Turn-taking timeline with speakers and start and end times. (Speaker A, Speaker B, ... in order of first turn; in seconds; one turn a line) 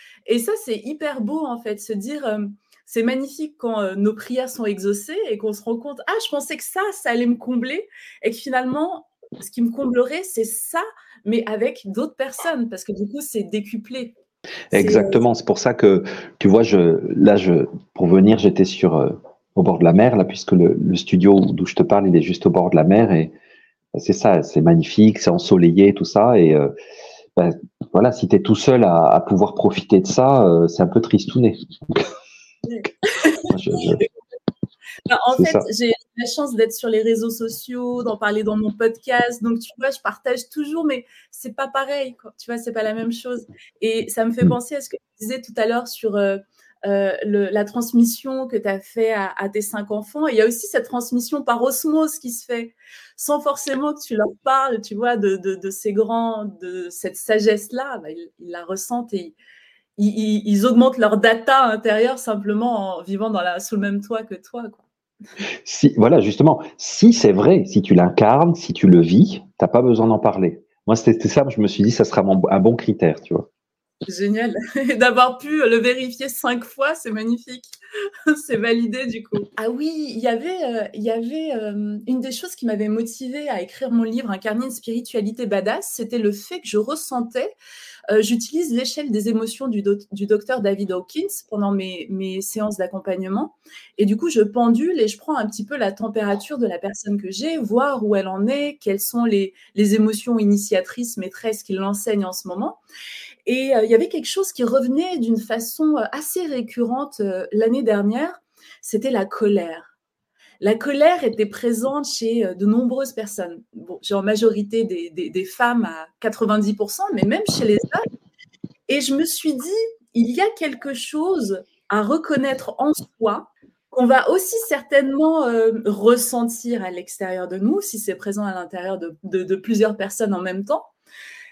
Speaker A: 0.3-14.2
Speaker A: 14.7-15.2
Speaker B: 14.7-23.3
Speaker B: 23.9-26.7
Speaker B: 27.4-32.0
Speaker A: 32.6-34.0
Speaker B: 33.5-34.0
Speaker A: 35.1-59.4
Speaker B: 35.4-35.7
Speaker A: 60.0-64.8
Speaker B: 65.6-73.5
Speaker A: 74.1-77.7
Speaker A: 78.3-87.5
Speaker A: 88.1-102.8
Speaker A: 103.5-109.9
Speaker A: 110.6-118.0
Speaker A: 118.9-130.9